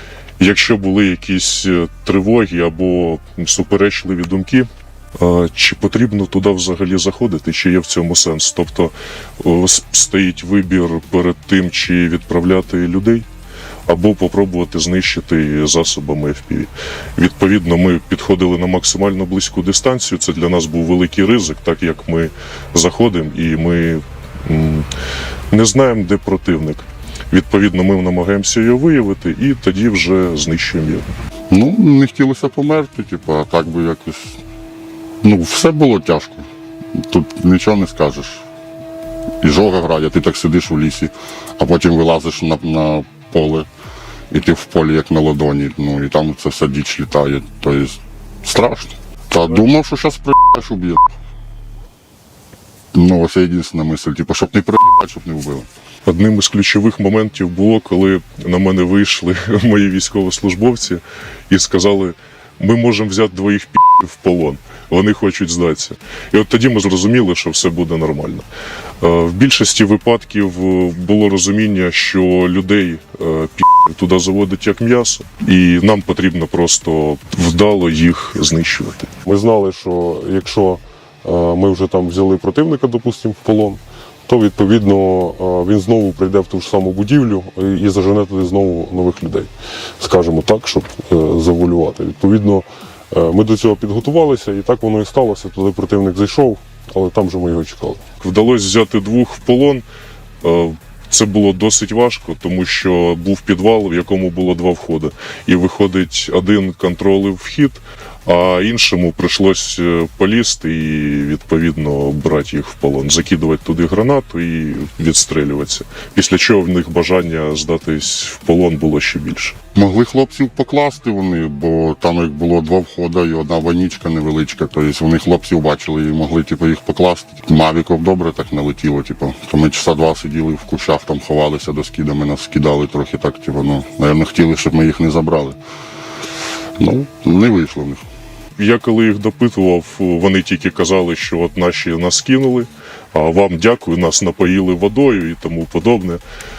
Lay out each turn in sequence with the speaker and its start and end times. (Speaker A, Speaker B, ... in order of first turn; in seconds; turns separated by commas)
Speaker A: 0.4-13.2, Speaker A: 13.9-24.9, Speaker A: 25.5-31.1, Speaker B: 31.5-34.4, Speaker B: 35.2-38.4, Speaker B: 39.4-43.7, Speaker B: 44.3-51.1, Speaker B: 52.9-55.7, Speaker A: 56.0-68.5, Speaker A: 69.0-79.1, Speaker C: 79.2-98.0, Speaker A: 98.2-99.8, Speaker A: 100.4-119.5, Speaker B: 119.7-135.6, Speaker B: 136.8-138.0, Speaker A: 138.6-146.2